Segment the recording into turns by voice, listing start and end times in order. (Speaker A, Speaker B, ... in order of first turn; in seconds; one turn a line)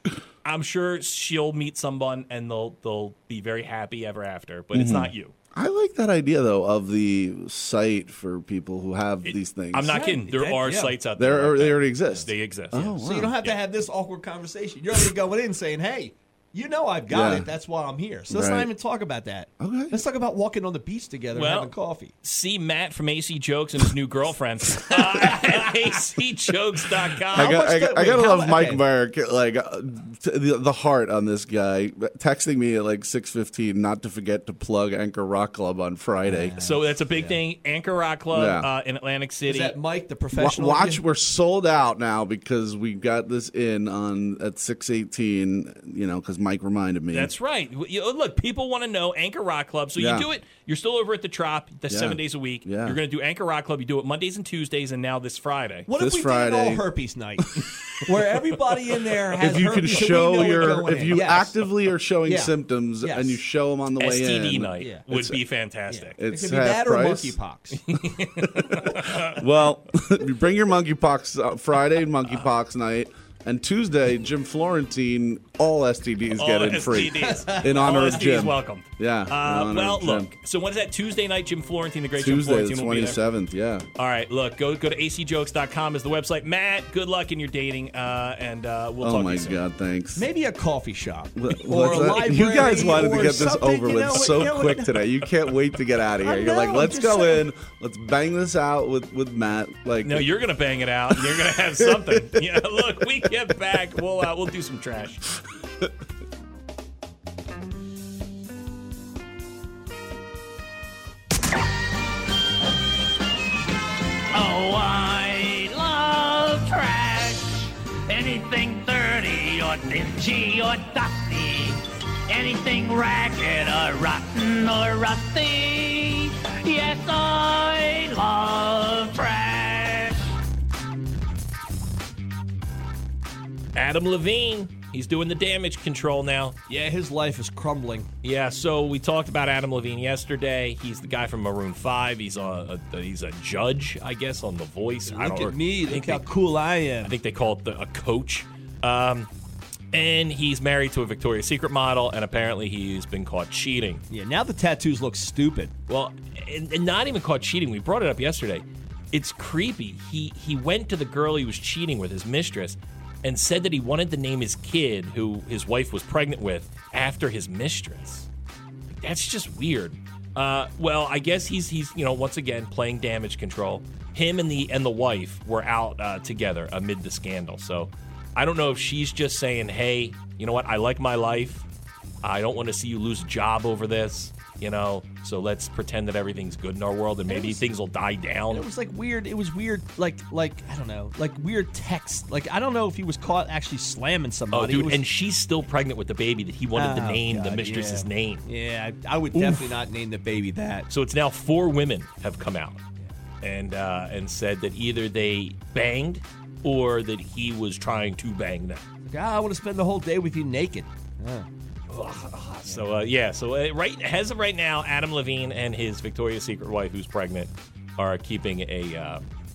Speaker A: 0.4-5.3
Speaker B: 4.7-10.0
Speaker A: 9.2-13.6
Speaker C: 9.9-11.0
Speaker B: 11.2-13.3
Speaker C: 13.0-22.1
Speaker B: 17.1-17.5
Speaker B: 18.3-18.7
Speaker B: 19.6-20.0
Speaker A: 21.3-27.7
Speaker C: 27.3-28.8
Speaker B: 27.4-36.6
Speaker C: 36.3-37.4
Speaker A: 36.6-39.8
Speaker B: 38.3-38.7
Speaker C: 39.5-41.0
Speaker B: 40.3-47.3
Speaker A: 47.1-55.9
Speaker B: 50.0-50.3
Speaker B: 51.9-53.0
Speaker C: 55.9-57.5
Speaker B: 55.9-56.9
Speaker C: 58.0-61.6
Speaker B: 59.4-65.4
Speaker A: 59.9-60.8
Speaker C: 62.2-63.4
Speaker A: 64.0-66.2
Speaker C: 64.8-65.1
Speaker C: 65.9-67.8
Speaker B: 66.2-67.4
Speaker A: 67.9-69.4
Speaker B: 68.6-80.3
Speaker A: 76.3-83.2
Speaker C: 77.2-78.4
Speaker B: 82.2-83.8
Speaker A: 84.0-89.6
Speaker B: 89.0-90.3
Speaker C: 90.2-95.1
Speaker B: 91.4-100.3
Speaker C: 96.2-97.5
Speaker A: 100.0-105.2
Speaker B: 101.6-102.0
Speaker D: 114.3-130.2
Speaker A: 133.8-136.6
Speaker C: 136.7-138.1
Speaker A: 138.2-146.3
Speaker C: 145.1-147.2
Speaker A: 147.0-149.3
Speaker A: 149.9-154.0
Speaker C: 154.1-155.7
Speaker A: 155.9-168.3
Speaker A: 168.9-181.7
Speaker A: 182.2-188.7
Speaker C: 187.3-187.7
Speaker C: 188.5-195.0
Speaker A: 194.5-198.5
Speaker C: 196.8-200.9
Speaker A: 199.3-199.8
Speaker A: 200.9-202.8
Speaker A: 203.4-208.8
Speaker C: 209.1-211.5
Speaker A: 211.9-219.2